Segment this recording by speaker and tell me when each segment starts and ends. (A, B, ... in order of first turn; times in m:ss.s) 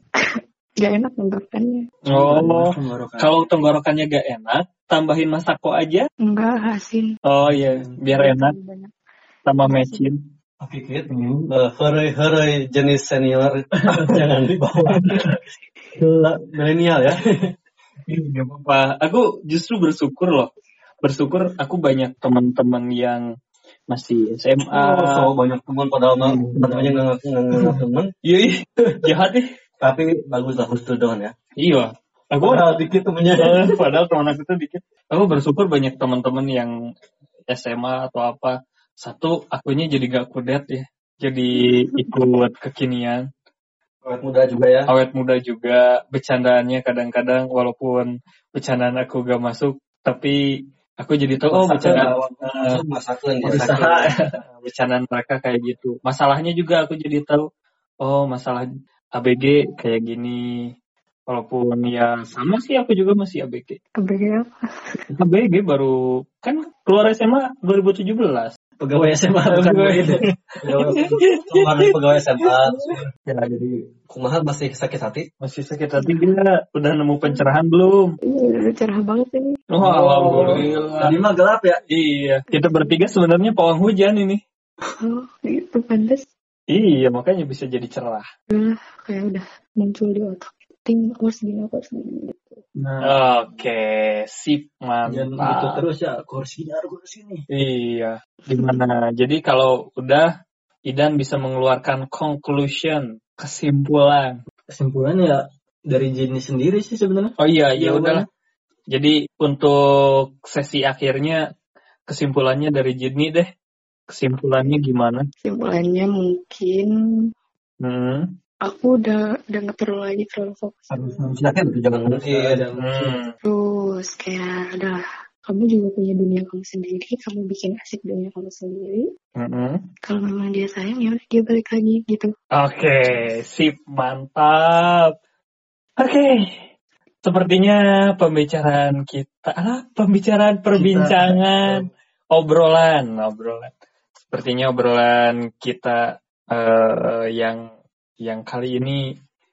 0:00.2-0:01.8 A
0:02.1-0:03.3 B
0:02.1-0:06.1 C
0:06.2-0:07.1 A
0:07.2-0:08.5 C
0:07.5-0:08.0 B
0:08.1-0:08.9 A
0:09.4-0:10.2 C
0:09.6-0:10.0 A
0:10.6-0:15.4 D
0:11.1-0:11.4 B
0:13.9-0:14.2 B
0:15.9-0:17.2 D
0:18.1-0:20.5 C
0:21.0-0:23.2 C
0:23.9-0:25.3 C
0:24.7-0:28.1 D
0:26.3-0:26.8 C
0:28.2-0:29.4 C
0:29.8-0:31.3 D
0:31.6-0:32.8 C
0:32.4-0:33.8 D
0:33.4-0:36.7 C
0:37.5-0:43.2 C
0:44.0-0:44.9 D
0:44.9-0:50.4 C
0:51.0-0:52.8 C
0:51.5-0:52.7 B
0:51.6-0:54.1 D
0:53.4-0:57.4 C
0:53.4-0:54.4 B
0:58.0-1:00.4 C
1:01.3-1:03.8 C
1:04.0-1:05.0 A
1:05.1-1:08.5 C
1:08.8-1:10.7 B
1:09.5-1:11.8 C
1:10.6-1:13.0 D
1:13.3-1:13.8 C
1:14.1-1:15.3 D
1:15.4-1:18.2 C
1:15.9-1:16.3 A
1:18.2-1:19.6 A
1:19.7-1:21.2 C
1:19.8-1:21.8 B
1:20.3-1:21.1 D
1:21.9-1:24.4 C
1:22.5-1:23.0 A
1:25.0-1:26.2 A
1:26.7-1:28.2 C
1:28.5-1:32.6 A
1:32.8-1:33.1 B
1:33.0-1:35.8 C
1:35.0-1:37.4 B
1:37.5-1:40.3 C
1:40.9-1:44.4 C
1:44.7-1:48.2 B
1:47.4-1:48.2 C
1:48.9-1:51.4 C
1:52.1-1:53.5 C
1:54.1-1:55.2 C
1:55.4-1:56.9 A
1:57.8-1:58.3 C
1:58.7-2:01.2 A
2:00.9-2:03.2 B
2:01.2-2:02.6 D
2:02.8-2:03.3 C
2:03.4-2:09.1 A
2:09.4-2:09.8 C
2:10.0-2:12.3 A
2:12.5-2:15.1 C
2:16.0-2:16.5 C
2:17.2-2:23.7 C
2:20.7-2:21.9 B
2:24.3-2:27.6 C
2:28.2-2:29.0 C